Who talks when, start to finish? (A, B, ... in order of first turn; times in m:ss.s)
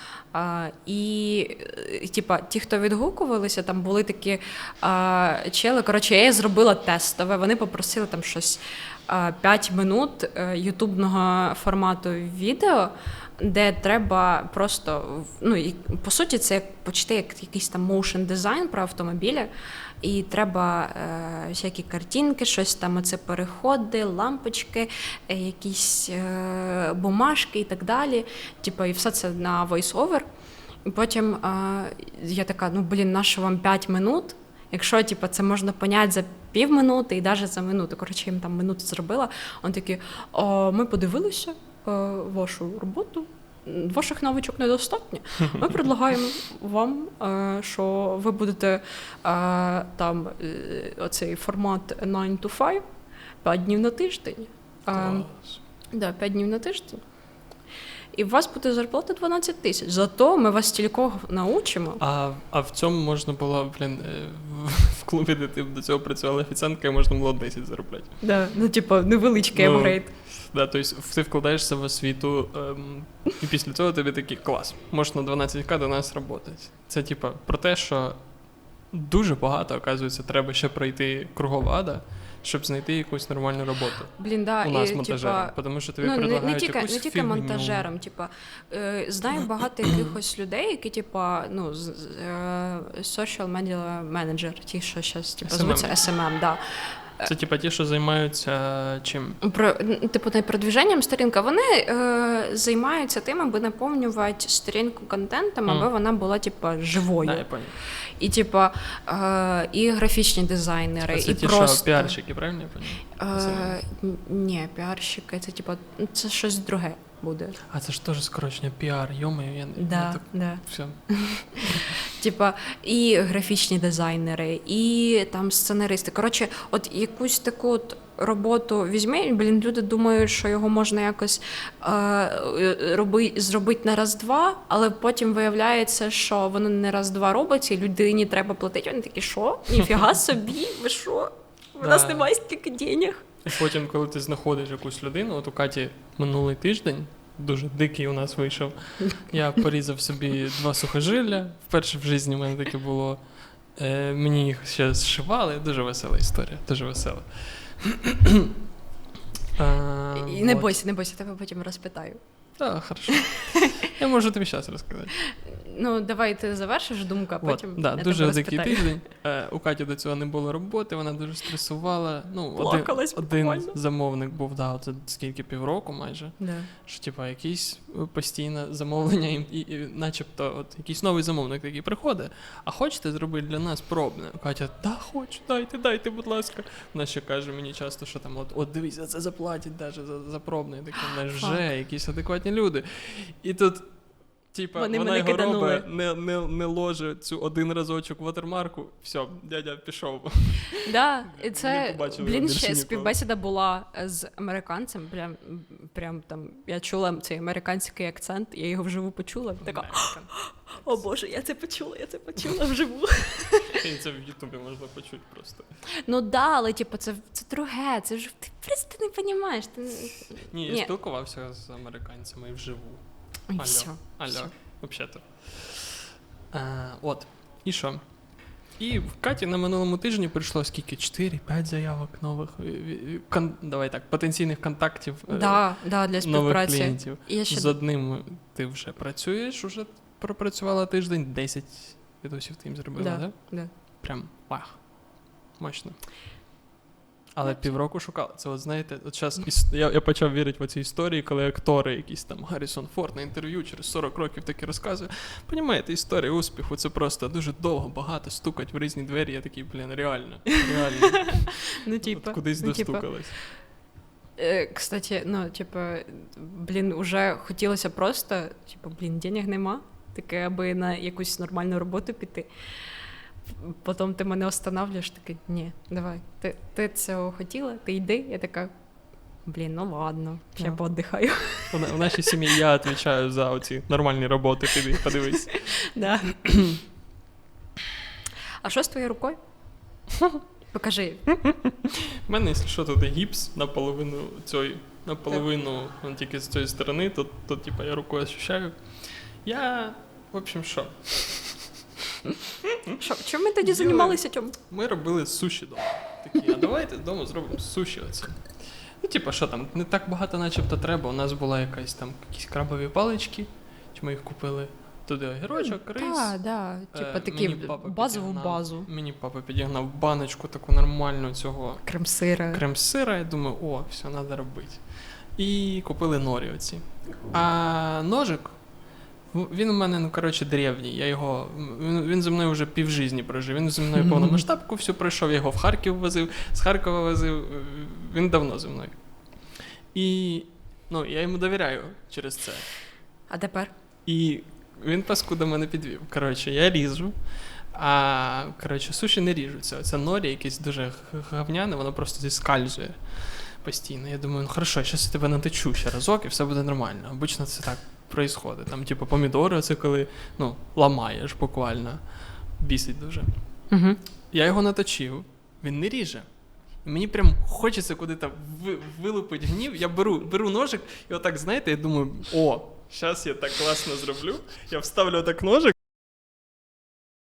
0:00.3-0:19.5 A
0:20.0-0:30.2 A
0:30.8-0:52.8 A
0:53.4-0:57.0 A
0:54.9-0:55.6 B
0:58.1-1:02.0 A
1:02.0-1:08.3 B
1:08.2-1:10.1 A
1:09.5-1:27.9 B
1:24.2-1:37.3 A
1:35.4-1:36.1 B
1:37.2-1:39.4 B
1:39.4-1:52.2 A
1:47.2-1:47.8 B
1:51.1-1:53.8 B
1:53.1-1:57.6 A
1:57.7-2:01.0 B
1:59.8-2:23.4 A
2:01.6-2:01.9 B
2:21.8-2:22.3 B
2:23.4-2:38.5 B
2:39.5-2:40.7 B
2:40.2-2:42.2 A
2:42.6-2:45.2 B
2:45.4-2:49.0 A
2:47.4-3:23.2 B
2:52.5-2:53.8 A
2:56.4-2:56.7 A
3:14.7-3:15.9 A
3:20.8-3:33.8 A
3:29.6-3:31.0 B
3:33.7-3:35.7 B
3:36.0-3:40.9 A
3:40.4-3:46.0 B
3:43.5-3:44.5 A
3:46.5-4:06.1 B
3:55.3-3:57.7 A
4:03.0-4:03.7 A
4:07.3-4:23.4 B
4:07.4-4:07.8 A
4:20.8-4:23.5 A
4:24.4-4:32.5 A
4:33.5-4:38.7 A
4:39.4-4:41.8 A
4:41.7-4:45.8 B
4:45.4-4:46.5 A
4:46.4-4:46.8 B
4:48.6-4:49.4 A
4:50.7-4:51.3 A
4:51.7-5:01.8 B
5:03.0-5:04.6 A
5:03.6-5:21.9 B
5:15.6-5:18.9 A
5:21.8-5:22.6 A
5:22.5-5:42.8 B
5:34.0-5:34.4 A
5:43.3-5:43.7 A
5:44.0-6:03.3 B
6:03.7-6:04.0 A
6:04.3-6:06.3 B
6:06.8-6:15.7 B